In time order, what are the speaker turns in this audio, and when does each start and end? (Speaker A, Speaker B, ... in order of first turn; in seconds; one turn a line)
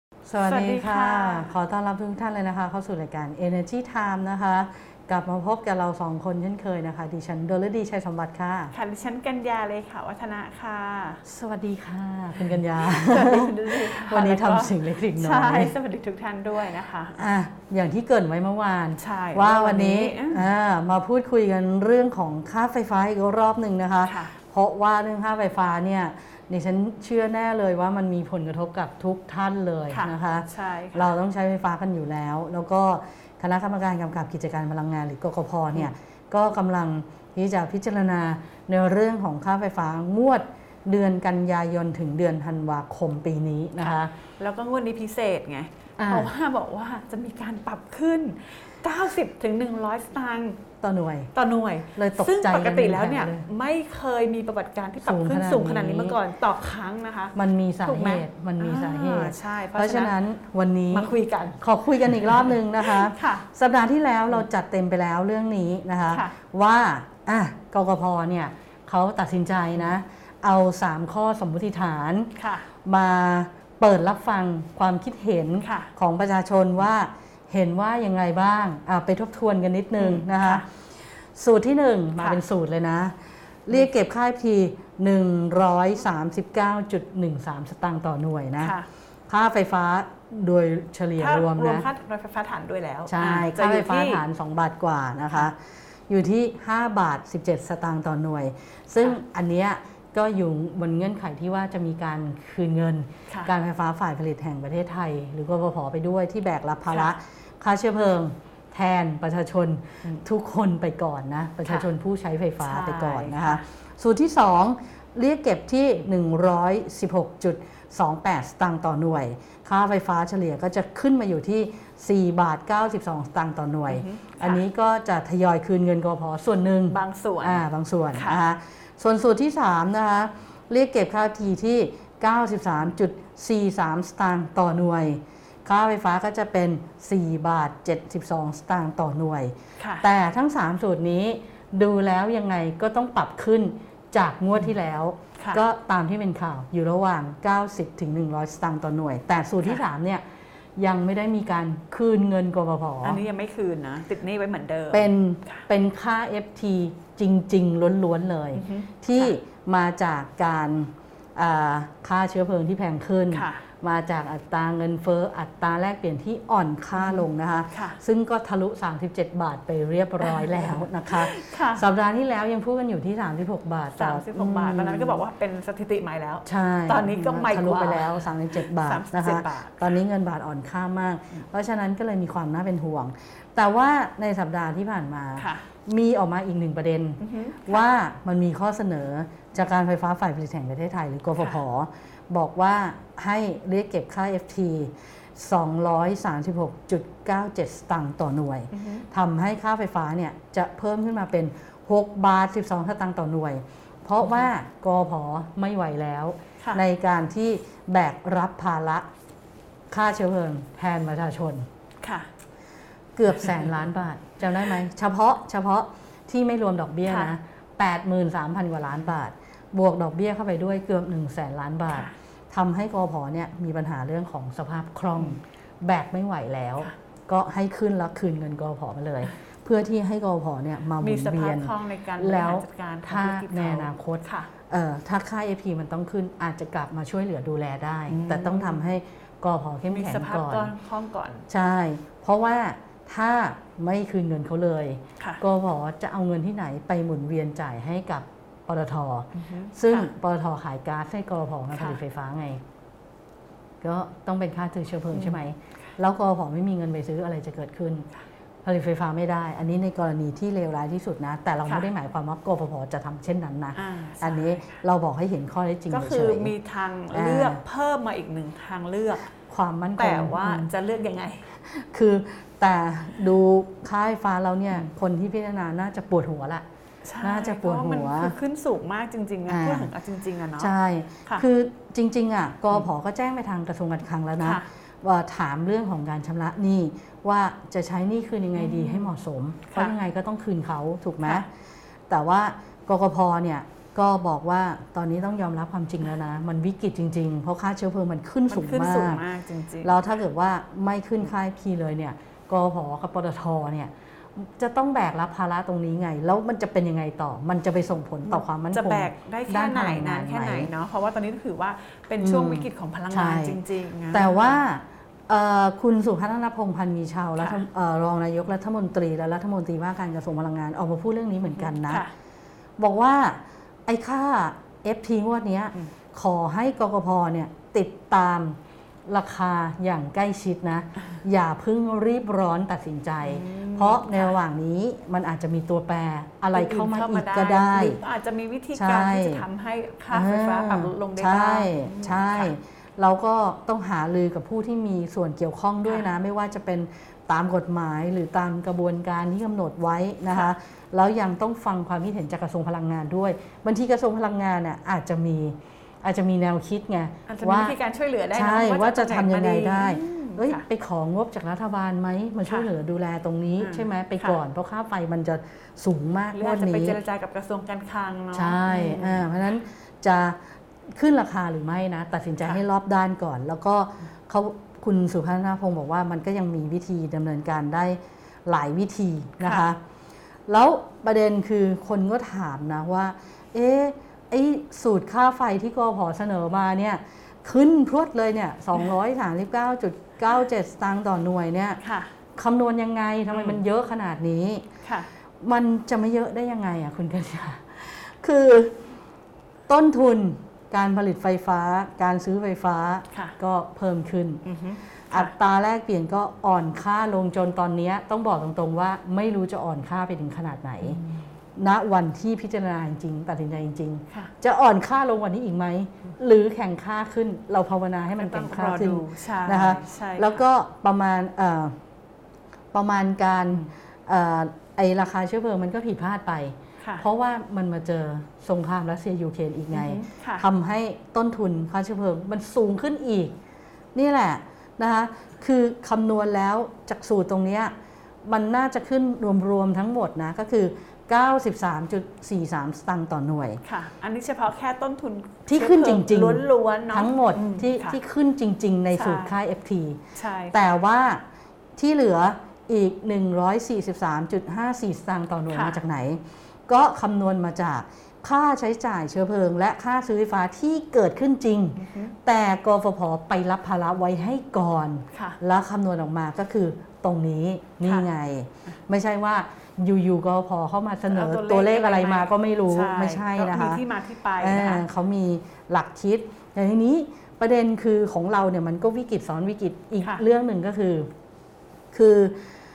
Speaker A: 0.3-8.7
Speaker B: 0.5-1.5
Speaker B: 8.7-11.2
Speaker A: 11.2-15.7
Speaker B: 12.8-17.2
Speaker A: 17.2-44.1
Speaker B: 19.0-20.4
Speaker B: 24.1-24.3
Speaker B: 29.9-31.1
Speaker B: 43.8-50.6
Speaker A: 46.0-46.3
Speaker A: 50.8-51.3
Speaker B: 51.3-57.3
Speaker A: 52.0-53.5
Speaker A: 55.0-56.2
Speaker A: 57.3-72.3
Speaker B: 57.9-60.1
Speaker B: 60.9-61.6
Speaker B: 62.2-63.5
Speaker B: 66.1-66.3
Speaker B: 72.4-72.7
Speaker A: 72.8-80.7
Speaker B: 75.6-75.9
Speaker B: 80.0-80.7
Speaker A: 81.3-88.8
Speaker B: 88.6-88.9
Speaker A: 89.3-91.9
Speaker B: 91.2-94.2
Speaker A: 93.1-95.6
Speaker A: 96.1-150.2
Speaker B: 106.9-107.2
Speaker B: 112.6-113.6
Speaker B: 123.9-124.6
Speaker B: 126.9-128.4
Speaker B: 139.8-140.1
Speaker A: 150.8-153.2
Speaker B: 153.0-155.6
Speaker A: 154.9-175.2
Speaker B: 158.6-159.3
Speaker B: 163.3-163.6
Speaker B: 167.0-168.0
Speaker B: 170.2-171.9
Speaker B: 174.0-180.0
Speaker A: 176.4-209.1
Speaker B: 185.4-185.6
Speaker B: 187.2-187.8
Speaker B: 198.7-199.1
Speaker A: 209.9-211.7
Speaker B: 212.0-212.3
Speaker A: 213.2-240.7
Speaker B: 217.1-217.3
Speaker B: 231.0-234.5
Speaker B: 238.1-238.8
Speaker B: 239.9-241.5
Speaker A: 241.5-252.6
Speaker B: 249.3-250.1
Speaker B: 251.7-252.0
Speaker A: 253.8-258.1
Speaker B: 255.1-255.4
Speaker A: 258.6-266.5
Speaker B: 263.8-264.8
Speaker B: 265.9-269.3
Speaker A: 267.1-267.6
Speaker A: 269.5-270.7
Speaker B: 270.0-271.4
Speaker A: 271.7-276.6
Speaker B: 277.1-280.7
Speaker A: 277.2-278.4
Speaker A: 279.5-279.9
Speaker A: 280.6-291.5
Speaker B: 288.6-289.1
Speaker A: 292.1-299.2
Speaker B: 298.5-299.9
Speaker A: 299.8-310.7
Speaker B: 308.3-314.6
Speaker A: 312.2-313.6
Speaker A: 314.1-322.0
Speaker B: 321.8-322.1
Speaker A: 322.8-338.0
Speaker B: 333.2-334.4
Speaker B: 336.5-342.5
Speaker A: 338.8-339.4
Speaker A: 340.1-357.8
Speaker B: 357.3-360.6
Speaker A: 358.3-367.0
Speaker B: 363.6-364.4
Speaker B: 366.3-369.3
Speaker A: 368.3-370.4
Speaker A: 370.9-379.8
Speaker B: 379.4-379.7
Speaker A: 380.5-391.8
Speaker B: 391.8-392.1
Speaker A: 392.4-394.6
Speaker B: 394.8-395.1
Speaker A: 395.4-398.8
Speaker A: 399.7-404.4
Speaker B: 404.4-405.3
Speaker A: 405.1-411.0
Speaker B: 410.8-411.2
Speaker A: 411.6-421.8
Speaker B: 418.1-420.4
Speaker A: 422.7-433.4
Speaker B: 429.7-430.4
Speaker A: 433.9-443.6
Speaker B: 443.6-448.0
Speaker A: 445.5-450.0
Speaker B: 448.9-449.3
Speaker B: 450.1-450.6
Speaker A: 450.5-451.2
Speaker A: 451.8-473.8
Speaker B: 455.5-455.8
Speaker B: 461.8-462.1
Speaker B: 465.1-465.4
Speaker B: 467.8-468.1
Speaker B: 471.1-474.8
Speaker A: 474.4-481.1
Speaker A: 481.9-482.4